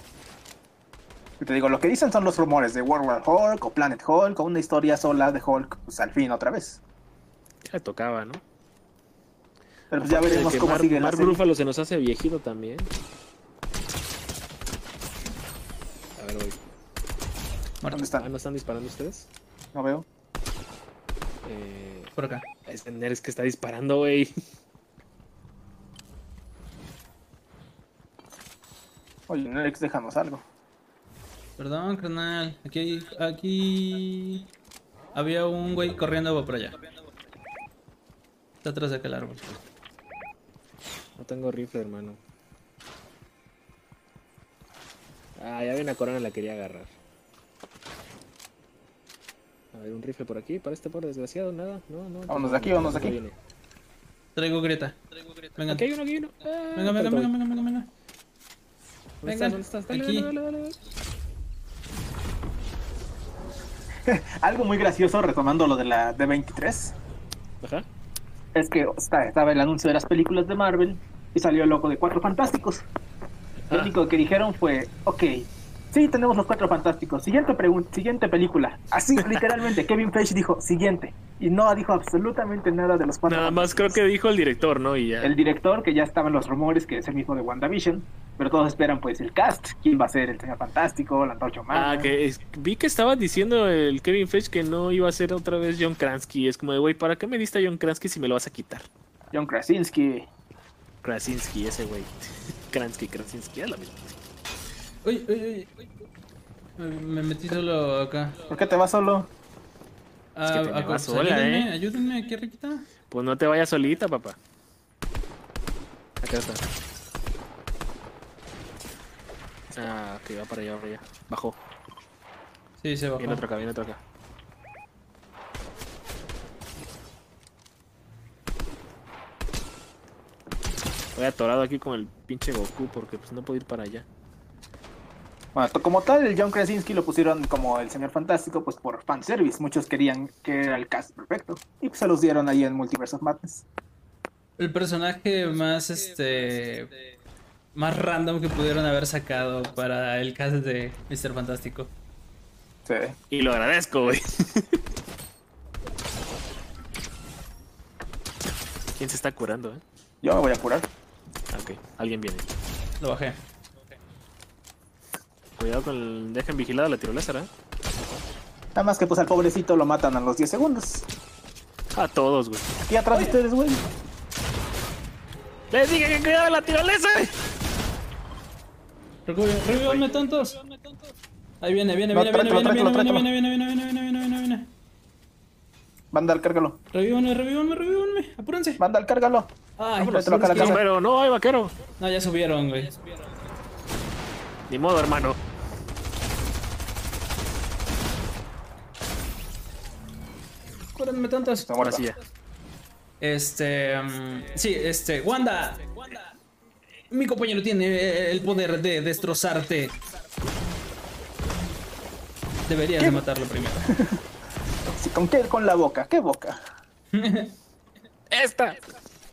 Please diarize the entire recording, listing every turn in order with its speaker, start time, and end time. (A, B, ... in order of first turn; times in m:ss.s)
0:01.4-0:06.8 A
0:07.6-0:08.4 B
0:09.9-0:11.4 A
0:10.0-0:12.9 B
0:16.2-0:16.6 B
0:17.9-0:18.2 A
0:18.2-0:19.3 B
0:19.7-0:20.0 A
0:21.4-0:22.1 B
0:22.2-0:22.4 C
0:22.6-0:24.3 B
0:29.3-0:30.4 A
0:31.6-0:34.5 C
0:35.1-0:36.7 C
0:38.6-0:39.6 C
0:41.2-0:42.2 B
0:45.4-0:46.9 B
0:49.7-0:53.4 B
0:52.3-0:53.2 A
0:54.4-0:55.0 C
0:55.5-0:55.8 C
0:55.7-0:57.3 B
0:56.7-0:57.9 C
0:59.2-1:00.8 B
0:59.2-1:00.3 C
1:04.0-1:06.9 A
1:07.6-1:07.8 B
1:08.5-1:12.8 A
1:13.7-1:24.0 A
1:19.2-1:19.5 B
1:23.2-1:25.4 B
1:25.2-1:32.1 A
1:31.7-1:38.9 B
1:39.3-1:40.3 A
1:41.0-1:44.2 B
1:45.0-1:45.7 C
1:46.8-1:48.4 C
1:48.5-1:49.3 A
1:50.3-1:52.9 C
1:50.4-1:51.7 B
1:53.1-1:54.4 B
1:56.2-1:56.6 B
1:59.7-2:01.6 B
2:02.8-2:03.5 C
2:03.2-2:04.0 B
2:11.1-2:14.0 B
2:15.5-2:23.6 A
2:24.6-2:26.9 C
2:27.7-2:31.9 C
2:32.8-2:33.2 A
2:33.3-2:34.8 B
2:39.0-2:39.8 B
2:40.2-2:40.9 A
2:41.5-2:42.5 B
2:43.0-2:43.4 C
2:45.6-2:47.5 B
2:48.7-2:51.1 A
2:51.9-2:52.7 B
2:52.8-2:53.8 A
2:55.7-2:57.3 B
2:59.2-3:00.6 C
3:01.6-3:04.7 C
3:02.1-3:03.3 A
3:06.1-3:06.8 A
3:06.9-3:08.8 C
3:08.8-3:10.8 A
3:09.8-3:10.8 C
3:10.4-3:11.8 B
3:12.0-3:13.0 C
3:14.7-3:15.4 B
3:20.9-3:22.0 C
3:21.7-3:22.0 A
3:21.8-3:22.2 B
3:23.2-3:26.0 C
3:27.1-3:30.0 C
3:32.7-3:33.9 C
3:33.9-3:34.2 A
3:34.9-3:36.6 A
3:37.1-3:37.5 C
3:38.3-3:38.8 B